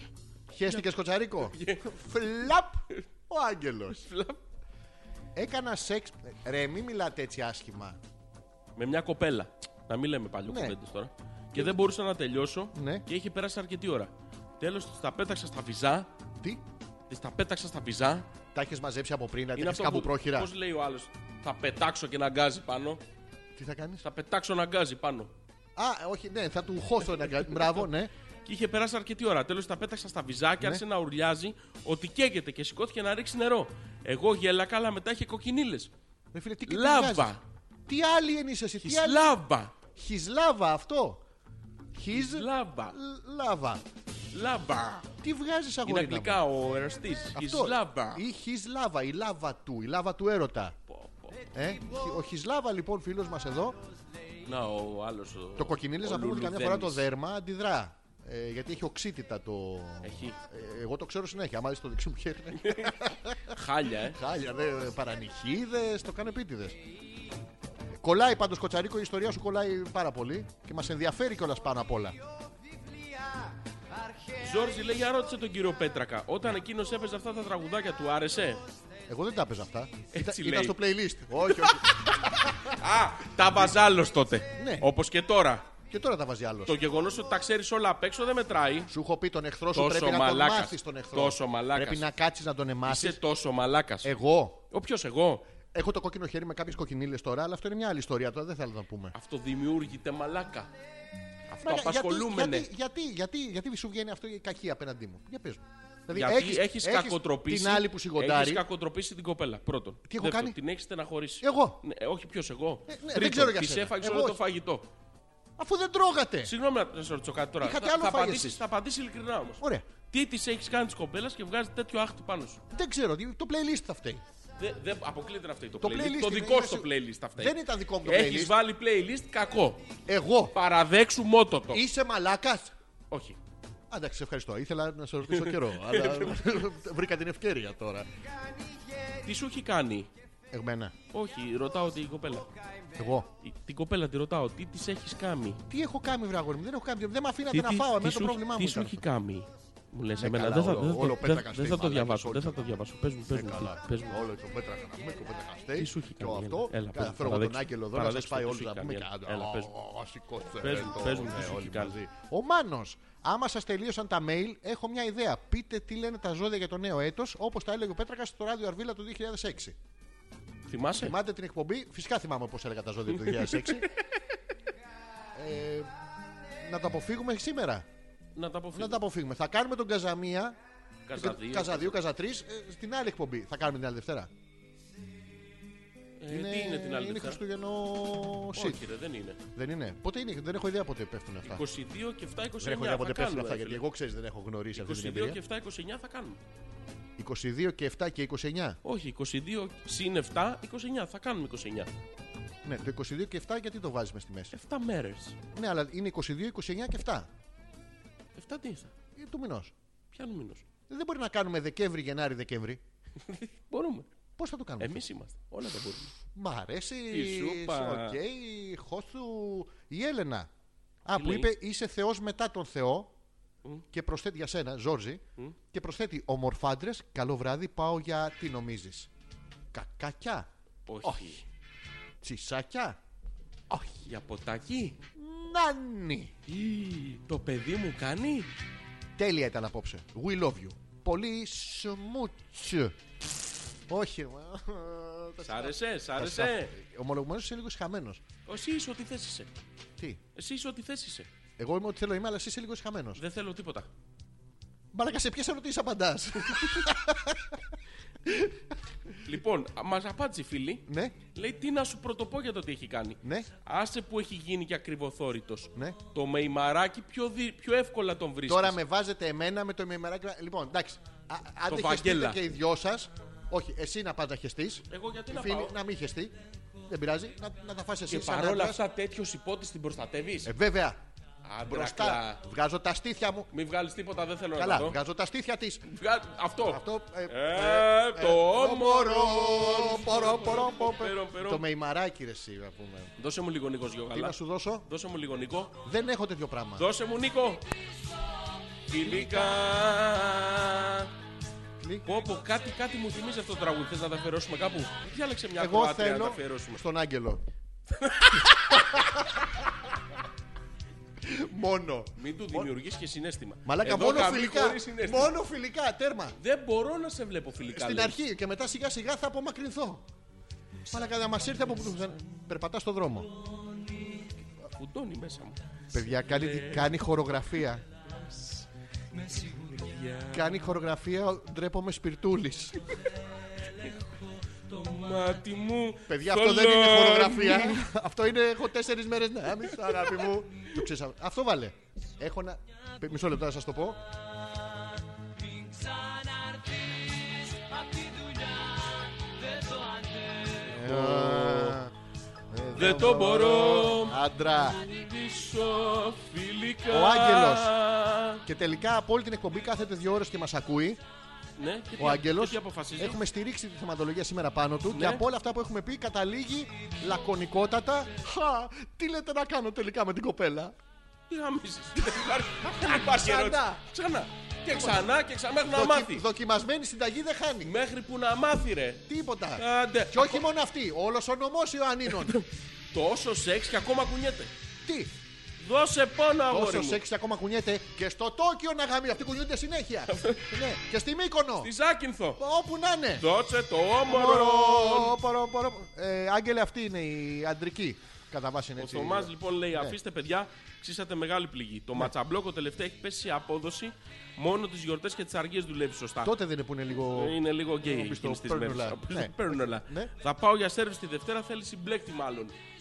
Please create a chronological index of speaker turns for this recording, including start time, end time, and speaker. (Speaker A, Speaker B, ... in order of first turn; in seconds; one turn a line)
Speaker A: 0.5-4.0
Speaker B: 1.4-2.0
Speaker B: 3.9-4.4
Speaker A: 5.3-8.0
Speaker B: 8.8-16.1
Speaker A: 10.5-10.8
Speaker A: 12.8-13.1
Speaker B: 17.1-18.3
Speaker A: 18.5-20.5
Speaker B: 19.6-23.0
Speaker A: 23.6-24.0
Speaker B: 24.0-25.3
Speaker A: 25.8-28.1
Speaker B: 28.4-35.9
Speaker A: 36.3-37.3
Speaker B: 36.7-37.4
Speaker A: 37.9-39.4
Speaker B: 38.8-39.7
Speaker A: 40.0-41.2
Speaker A: 41.9-43.8
Speaker B: 42.1-43.0
Speaker B: 44.3-45.1
Speaker A: 45.2-46.4
Speaker B: 45.9-48.2
Speaker A: 47.4-50.8
Speaker B: 50.9-51.5
Speaker A: 51.5-53.8
Speaker B: 54.5-57.1
Speaker A: 55.6-66.8
Speaker B: 60.0-60.4
Speaker B: 62.6-63.0
Speaker B: 63.5-64.2
Speaker A: 68.0-72.2
Speaker B: 74.4-78.6
Speaker A: 79.1-82.8
Speaker B: 80.1-80.8
Speaker B: 81.5-81.8
Speaker B: 82.7-85.7
Speaker A: 84.6-84.9
Speaker A: 85.9-86.8
Speaker B: 86.7-88.9
Speaker A: 88.9-93.2
Speaker B: 89.7-92.1
Speaker B: 92.8-94.1
Speaker A: 94.0-94.6
Speaker B: 94.7-95.5
Speaker A: 95.7-99.2
Speaker B: 99.1-100.7
Speaker B: 101.5-102.7
Speaker A: 101.6-108.7
Speaker B: 106.1-114.9
Speaker A: 110.1-110.6
Speaker A: 111.4-111.8
Speaker A: 112.9-114.4
Speaker A: 115.6-116.5
Speaker B: 116.5-122.6
Speaker A: 117.6-118.6
Speaker A: 119.6-119.9
Speaker A: 122.7-124.2
Speaker B: 124.6-129.8
Speaker A: 125.8-128.6
Speaker A: 130.1-130.5
Speaker B: 130.5-131.8
Speaker A: 131.7-132.7
Speaker B: 133.1-133.4
Speaker A: 133.9-138.1
Speaker B: 135.3-136.4
Speaker B: 139.2-140.1
Speaker A: 140.5-140.9
Speaker B: 141.1-142.5
Speaker A: 142.9-143.3
Speaker B: 143.4-145.6
Speaker A: 145.7-149.0
Speaker B: 147.5-154.2
Speaker A: 150.2-152.8
Speaker A: 153.3-169.8
Speaker B: 155.8-159.7
Speaker B: 160.6-162.0
Speaker B: 170.7-171.2
Speaker A: 171.0-173.9
Speaker B: 173.1-173.9
Speaker A: 175.3-175.9
Speaker A: 176.6-177.9
Speaker B: 178.4-179.0
Speaker A: 178.7-180.6
Speaker B: 181.1-182.0
Speaker A: 181.2-184.3
Speaker B: 186.2-187.4
Speaker A: 186.3-188.8
Speaker B: 188.5-189.4
Speaker A: 189.5-191.6
Speaker B: 191.4-193.8
Speaker A: 192.6-195.4
Speaker B: 194.8-196.4
Speaker A: 197.2-198.8
Speaker B: 198.8-201.9
Speaker A: 202.7-204.5
Speaker B: 204.5-205.4
Speaker A: 205.5-207.3
Speaker B: 208.4-208.9
Speaker A: 209.2-209.7
Speaker B: 210.1-210.7
Speaker A: 210.9-212.8
Speaker B: 213.2-214.1
Speaker A: 214.4-215.0
Speaker B: 214.8-216.1
Speaker A: 216.3-220.5
Speaker B: 217.1-218.2
Speaker A: 221.1-223.1
Speaker B: 221.1-221.5
Speaker A: 223.9-229.1
Speaker A: 229.7-230.5
Speaker B: 230.9-231.4
Speaker A: 231.0-231.4
Speaker A: 232.2-233.0
Speaker A: 233.7-234.0
Speaker B: 234.0-235.0
Speaker A: 235.2-236.3
Speaker B: 236.5-238.5
Speaker A: 239.2-243.0
Speaker A: 243.9-248.2
Speaker B: 245.4-246.7
Speaker B: 248.5-249.5
Speaker B: 250.3-251.3
Speaker A: 251.6-253.2
Speaker B: 253.2-253.9
Speaker A: 254.9-257.7
Speaker A: 258.2-258.6
Speaker B: 259.2-268.8
Speaker A: 260.9-261.2
Speaker A: 263.2-263.5
Speaker A: 268.5-276.3
Speaker B: 271.7-272.4
Speaker B: 274.9-275.8
Speaker A: 276.9-278.8
Speaker B: 278.1-280.5
Speaker A: 280.4-281.0
Speaker B: 281.4-282.4
Speaker A: 281.7-283.5
Speaker B: 283.5-285.0
Speaker A: 284.6-285.9
Speaker B: 285.9-291.6
Speaker A: 286.7-293.1
Speaker B: 293.2-295.8
Speaker A: 294.1-294.9
Speaker A: 295.9-296.9
Speaker B: 296.8-297.6
Speaker B: 298.9-301.1
Speaker A: 301.8-302.1
Speaker B: 302.1-306.8
Speaker A: 305.6-307.4
Speaker B: 307.9-309.1
Speaker A: 308.7-309.5
Speaker A: 311.2-312.7
Speaker B: 312.2-315.3
Speaker A: 313.6-316.4
Speaker B: 316.4-318.2
Speaker A: 317.6-320.1
Speaker A: 320.9-323.3
Speaker B: 324.8-326.9
Speaker A: 325.9-327.8
Speaker B: 328.1-328.7
Speaker B: 329.2-330.6
Speaker A: 330.3-332.8
Speaker B: 333.6-334.1
Speaker B: 334.7-337.8
Speaker A: 336.1-344.0
Speaker B: 339.8-340.1
Speaker B: 350.7-351.8
Speaker A: 350.7-351.9
Speaker A: 352.5-354.8
Speaker B: 352.8-358.4
Speaker A: 356.9-357.7
Speaker A: 358.5-361.0
Speaker B: 361.6-363.2
Speaker A: 362.0-370.8
Speaker B: 364.9-365.2
Speaker B: 371.3-376.2
Speaker A: 372.5-373.8
Speaker A: 374.7-375.1
Speaker A: 375.7-377.7
Speaker B: 377.6-379.1
Speaker A: 379.1-382.4
Speaker B: 379.6-380.5
Speaker B: 382.1-384.5
Speaker A: 384.8-385.1
Speaker B: 385.6-387.0
Speaker A: 386.5-391.7
Speaker B: 390.1-390.5
Speaker B: 391.6-392.4
Speaker A: 392.4-393.2
Speaker B: 393.2-395.2
Speaker A: 394.0-400.0
Speaker B: 398.8-406.3
Speaker A: 406.2-410.1
Speaker B: 407.1-412.6